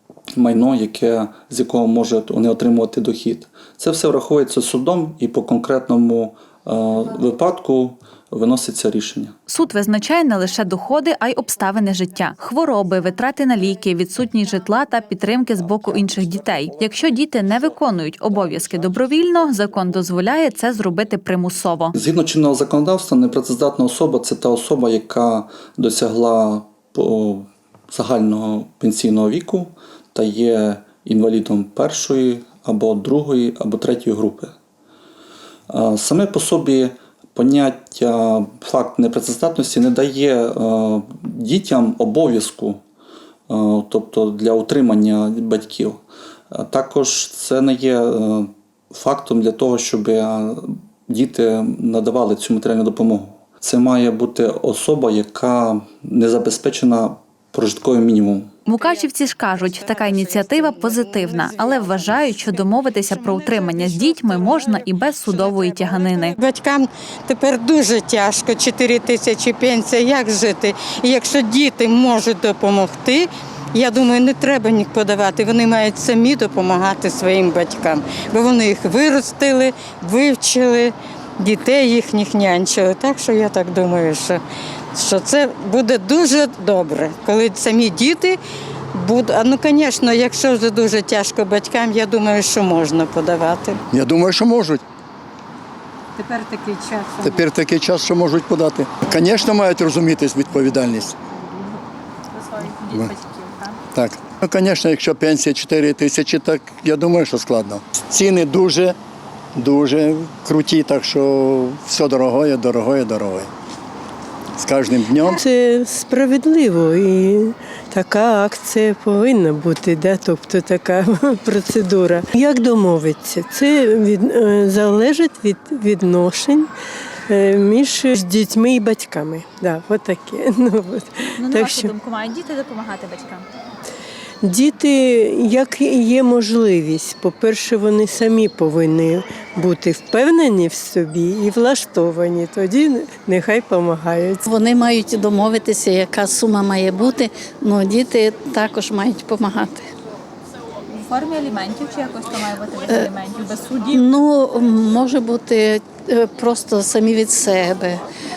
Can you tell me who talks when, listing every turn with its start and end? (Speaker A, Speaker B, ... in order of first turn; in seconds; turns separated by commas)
Speaker A: 0.4-9.3, Speaker B: 9.5-21.9, Speaker A: 15.6-21.0, Speaker A: 21.9-34.5, Speaker A: 35.7-42.8, Speaker A: 43.5-46.0, Speaker A: 46.5-58.6, Speaker C: 58.6-84.4, Speaker B: 58.7-66.4, Speaker C: 84.9-88.4, Speaker C: 88.9-93.8, Speaker D: 93.9-94.8, Speaker C: 96.2-97.4, Speaker D: 97.2-101.2, Speaker B: 102.7-103.7, Speaker D: 103.9-109.0, Speaker D: 109.5-113.5, Speaker D: 114.6-115.4, Speaker E: 115.3-126.7, Speaker E: 127.3-131.9, Speaker B: 131.4-133.4, Speaker E: 134.4-144.4, Speaker F: 144.4-149.8, Speaker B: 150.9-154.0, Speaker F: 153.9-158.0